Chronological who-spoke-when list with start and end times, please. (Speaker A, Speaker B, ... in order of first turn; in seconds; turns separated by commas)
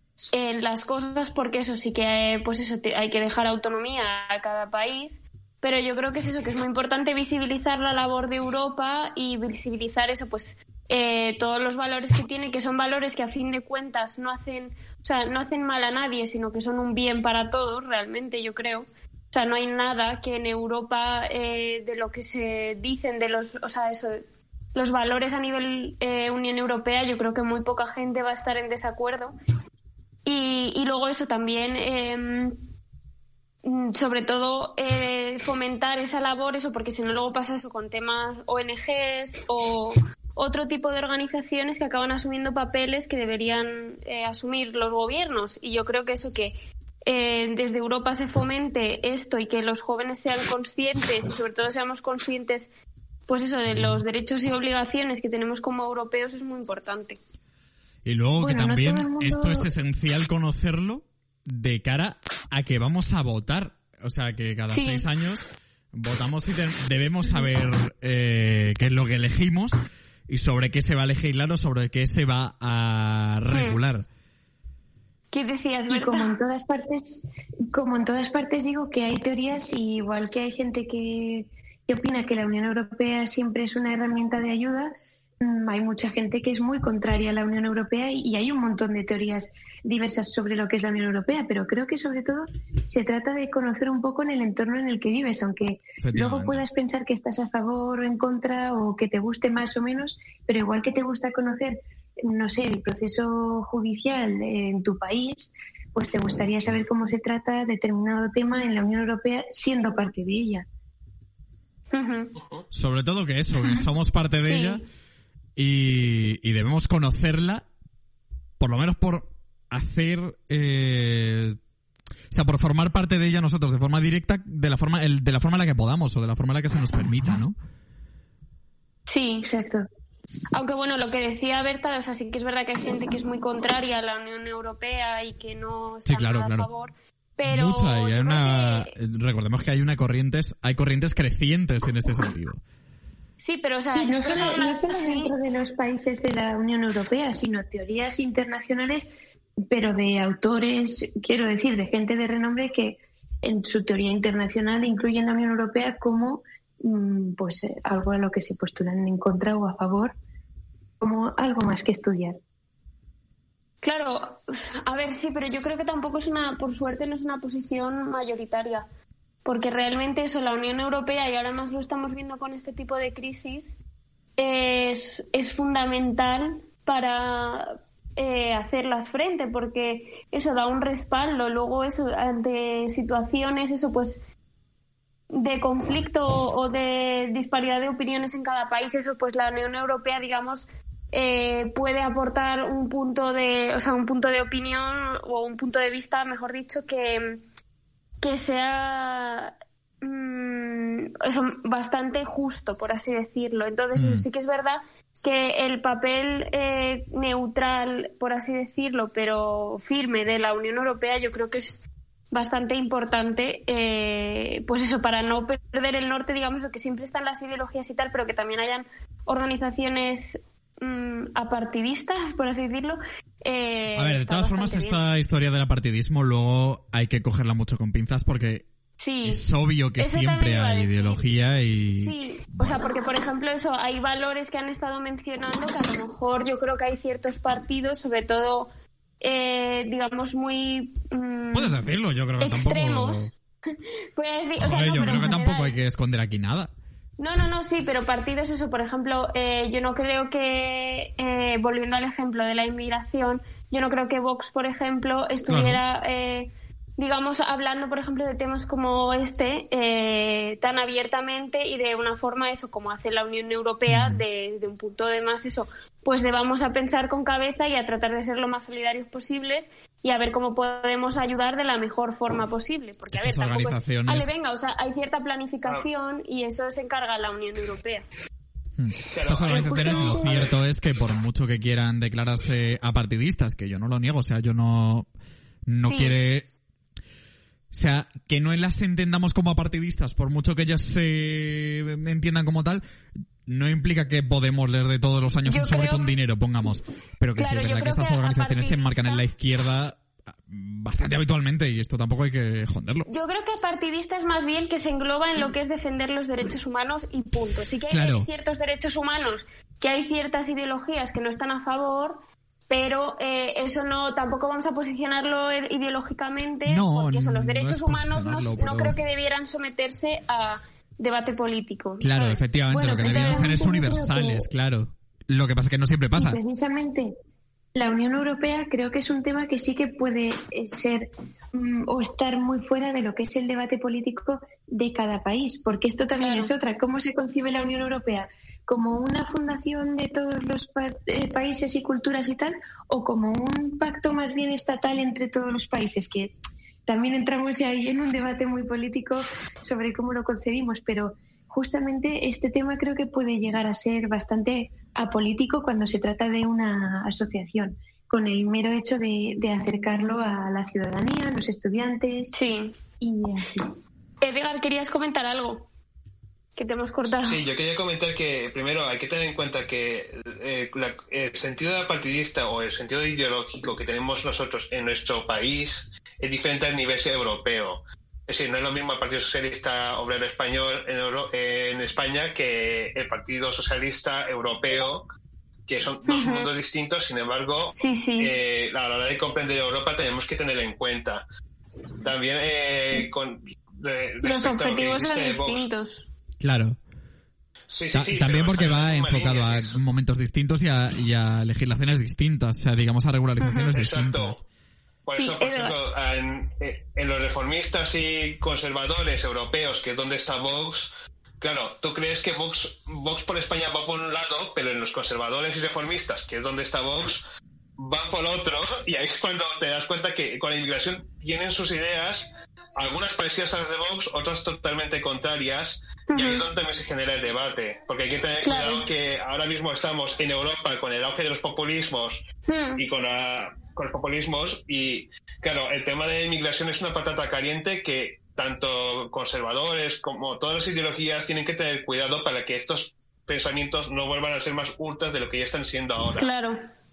Speaker A: 0.3-24.2, Speaker A: 24.7-29.4, Speaker A: 30.2-32.6, Speaker A: 33.6-52.7, Speaker A: 53.3-57.2, Speaker B: 58.0-74.1, Speaker C: 58.4-59.7, Speaker A: 64.7-65.0, Speaker A: 73.5-73.8, Speaker A: 75.3-76.3, Speaker C: 75.9-110.6, Speaker B: 96.0-96.6, Speaker A: 111.9-112.3, Speaker B: 112.7-114.8, Speaker A: 114.4-114.8, Speaker B: 115.5-117.7, Speaker B: 118.6-121.6, Speaker B: 122.3-127.5, Speaker A: 129.1-129.5, Speaker C: 129.4-129.9, Speaker A: 130.5-138.9, Speaker B: 136.1-136.7, Speaker B: 137.4-142.6, Speaker A: 143.4-145.3, Speaker C: 143.9-149.1, Speaker C: 149.7-160.1, Speaker C: 161.0-162.4, Speaker A: 163.8-168.8, Speaker A: 169.4-173.7, Speaker A: 174.4-184.2, Speaker A: 185.3-197.4, Speaker A: 198.2-211.8, Speaker B: 203.9-204.2, Speaker A: 212.3-225.0, Speaker B: 223.9-228.7, Speaker A: 229.0-231.3, Speaker B: 229.2-232.8, Speaker A: 232.0-238.7, Speaker A: 239.2-241.8, Speaker B: 241.5-243.3, Speaker A: 242.4-245.8, Speaker B: 244.6-246.7, Speaker A: 247.2-278.0, Speaker B: 255.5-255.8, Speaker B: 263.9-264.2, Speaker B: 273.1-274.3, Speaker B: 278.8-285.1, Speaker D: 279.1-280.6, Speaker A: 279.5-280.2, Speaker B: 285.7-286.5, Speaker A: 285.8-286.2, Speaker B: 287.7-292.8, Speaker B: 293.4-303.1, Speaker A: 295.4-296.1, Speaker A: 297.4-299.2, Speaker A: 303.1-323.7, Speaker B: 307.9-308.3, Speaker B: 316.7-319.0, Speaker B: 322.0-326.4, Speaker C: 322.7-324.4, Speaker C: 326.1-327.1, Speaker C: 327.7-346.3, Speaker A: 336.2-336.5, Speaker C: 346.9-362.3, Speaker A: 362.3-362.7, Speaker C: 363.0-363.7, Speaker A: 364.2-365.7, Speaker A: 366.6-367.4, Speaker D: 367.3-385.1, Speaker D: 385.7-391.2, Speaker A: 386.1-386.5, Speaker A: 387.8-388.3, Speaker D: 392.0-395.7, Speaker A: 394.2-396.1, Speaker B: 396.4-396.8, Speaker D: 397.7-399.8, Speaker B: 397.9-404.4, Speaker A: 403.4-403.7, Speaker D: 403.7-404.4, Speaker D: 405.0-417.2, Speaker A: 405.1-405.8, Speaker D: 417.8-432.2, Speaker A: 426.1-426.4, Speaker A: 428.4-428.9, Speaker A: 432.5-432.8, Speaker D: 432.8-446.3, Speaker A: 446.1-446.6